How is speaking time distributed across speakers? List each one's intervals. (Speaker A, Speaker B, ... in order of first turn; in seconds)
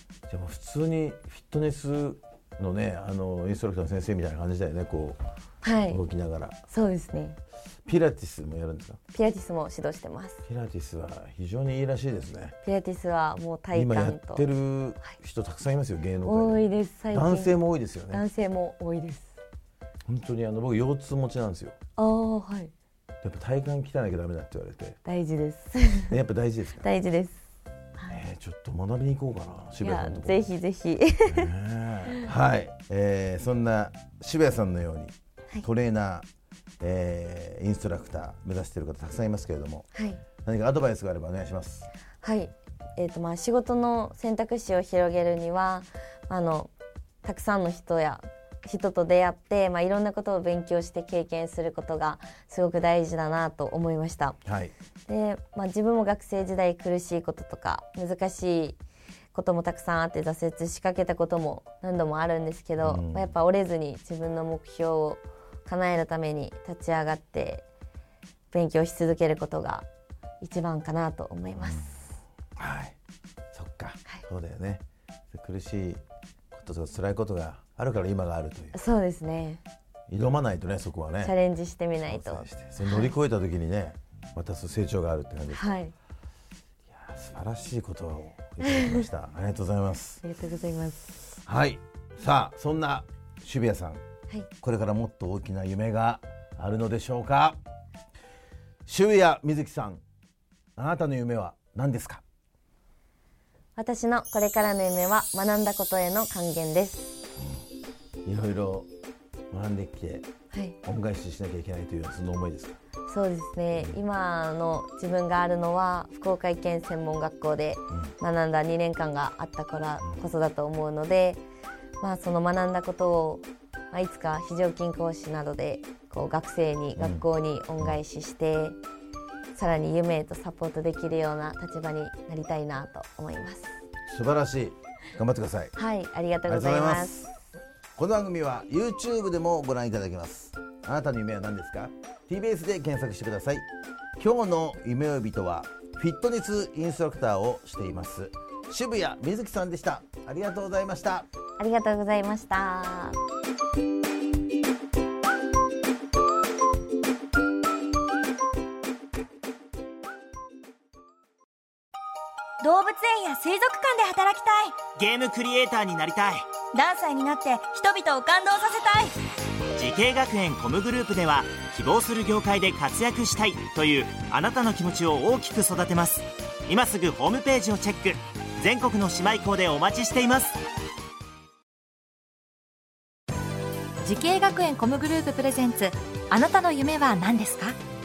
Speaker A: 0.3-5.2, 5.8-6.6, 7.8-9.0, 10.4-12.5, 13.7-18.2, 20.1-21.7, 23.2-25.0, 26.1-26.9, 28.1-30.5, 31.2-36.2, 36.8-39.9, 40.4-41.9, 54.4-54.7, 62.8-63.4, 71.6-71.9, 72.5-73.0, 73.5-76.0, 76.5-78.8, 80.1-81.3, 82.0-85.8, 86.9-90.2, 91.2-94.0, 94.6-97.6, 98.8-100.0, 100.8-102.2, 108.2-108.9, 109.5-110.3, 110.8-112.8, 113.7-114.0, 120.0-120.3, 127.0-127.3, 134.1-135.7, 136.5-137.3, 138.0-143.7, 144.2-151.3
Speaker B: 5.6-6.0, 6.7-7.4, 9.1-10.4, 12.6-14.5, 16.2-17.6, 18.1-19.4, 22.0-22.7, 25.0-26.2, 26.8-27.4, 29.8-31.5, 39.9-40.2, 42.2-46.7, 47.2-54.4, 55.1-58.8, 59.3-67.7, 68.5-69.8, 70.4-72.2, 78.7-79.6, 81.2-83.1, 85.5-85.9, 88.6-89.0, 90.2-91.1, 103.8-107.2, 110.5-110.8, 113.1-121.4, 122.0-128.8, 129.5-133.8, 135.7-137.2, 151.6-153.2
Speaker C: 162.6-164.8, 166.7-169.2
Speaker D: 164.9-166.5, 169.8-180.6
Speaker E: 184.0-187.8